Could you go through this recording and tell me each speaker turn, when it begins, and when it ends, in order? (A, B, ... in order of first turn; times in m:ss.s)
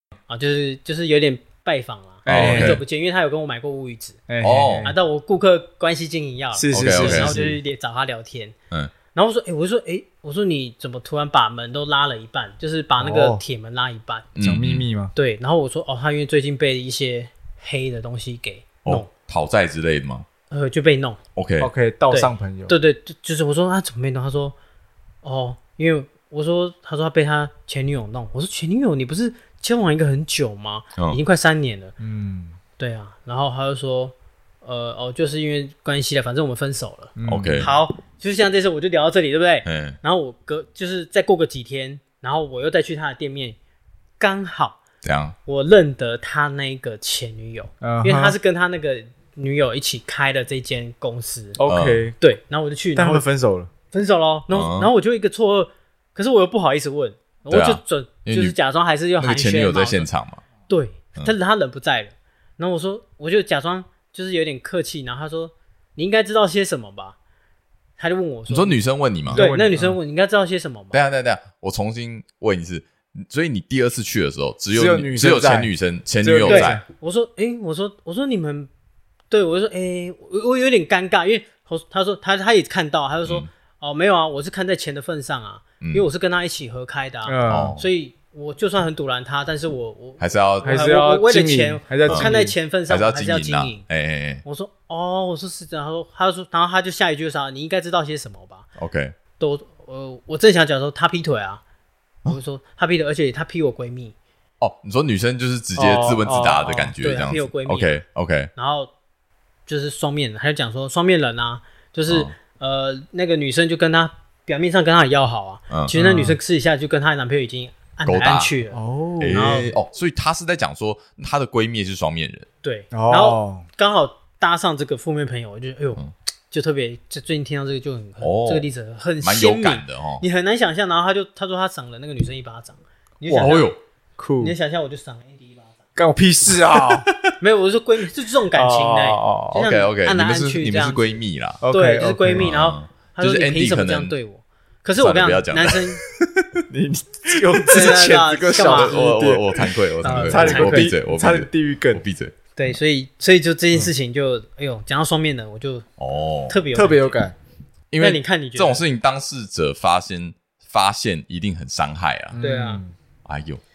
0:00.3-0:04.2 A
0:02.2-0:02.8 B
0:02.3-0:02.8 C
0:04.3-0:04.9 B
0:04.4-0:04.9 C
0:04.8-0:08.6 A
0:06.6-0:07.6 B
0:06.7-0:07.4 C
0:09.1-0:14.3 A
0:13.0-0:13.4 B
0:14.4-0:14.9 C
0:14.4-0:15.1 B
0:15.2-0:19.1 A
0:18.8-0:20.2 C
0:20.5-0:21.2 A
0:21.4-0:21.7 C
0:21.6-0:22.8 B
0:22.1-0:24.6 A
0:25.2-0:31.9 A
0:32.0-0:32.6 B
0:32.8-0:43.6 A
0:37.2-0:37.7 B
0:37.3-0:37.7 C
0:39.6-0:40.0 C
0:44.2-0:44.8 A
0:45.0-0:45.4 C
0:45.5-0:51.6 A
0:47.8-0:48.4 B
0:51.6-0:52.2 B
0:51.6-0:52.1 C
0:52.2-0:53.2 A
0:53.0-0:53.7 B
0:53.9-1:00.1 A
0:54.5-0:54.9 C
0:57.5-0:58.6 C
0:59.2-1:00.4 C
1:00.7-1:07.2 A
1:08.0-1:08.8 A
1:08.5-1:09.5 C
1:09.3-1:10.0 B
1:09.3-1:11.0 A
1:10.9-1:16.8 C
1:14.7-1:16.8 B
1:16.5-1:18.7 A
1:19.3-1:33.8 A
1:27.3-1:27.8 B
1:27.5-1:27.9 C
1:30.2-1:30.8 C
1:30.6-1:32.6 B
1:32.9-1:34.4 C
1:34.4-1:38.7 A
1:38.8-1:39.2 C
1:39.4-1:41.6 A
1:42.3-1:44.2 A
1:44.6-1:48.5 C
1:45.8-1:47.0 B
1:47.0-1:48.0 A
1:48.6-1:48.9 A
1:49.7-1:58.8 A
1:55.9-1:56.4 B
1:58.1-1:58.5 C
1:58.7-1:59.7 B
1:59.2-2:02.5 C
1:59.3-1:59.8 A
2:02.6-2:13.7 A
2:02.9-2:03.7 B
2:08.2-2:08.7 C
2:09.2-2:10.2 C
2:13.3-2:13.6 B
2:13.4-2:13.8 C
2:14.2-2:14.6 B
2:14.4-2:15.8 A
2:16.0-2:17.1 B
2:16.8-2:17.3 C
2:17.4-2:21.1 A
2:18.5-2:19.7 B
2:19.6-2:21.6 C
2:21.6-2:22.5 B
2:21.7-2:26.0 A
2:22.3-2:24.2 C
2:25.0-2:26.3 C
2:26.7-2:32.0 B
2:27.3-2:32.3 C
2:27.7-2:29.2 A
2:30.0-2:30.9 A
2:32.6-2:35.9 A
2:36.0-2:36.6 C
2:36.5-2:37.2 A
2:36.7-2:37.4 B
2:37.9-2:42.4 C
2:38.0-2:38.8 A
2:42.3-2:43.0 B
2:42.4-2:42.8 A
2:43.2-2:43.6 C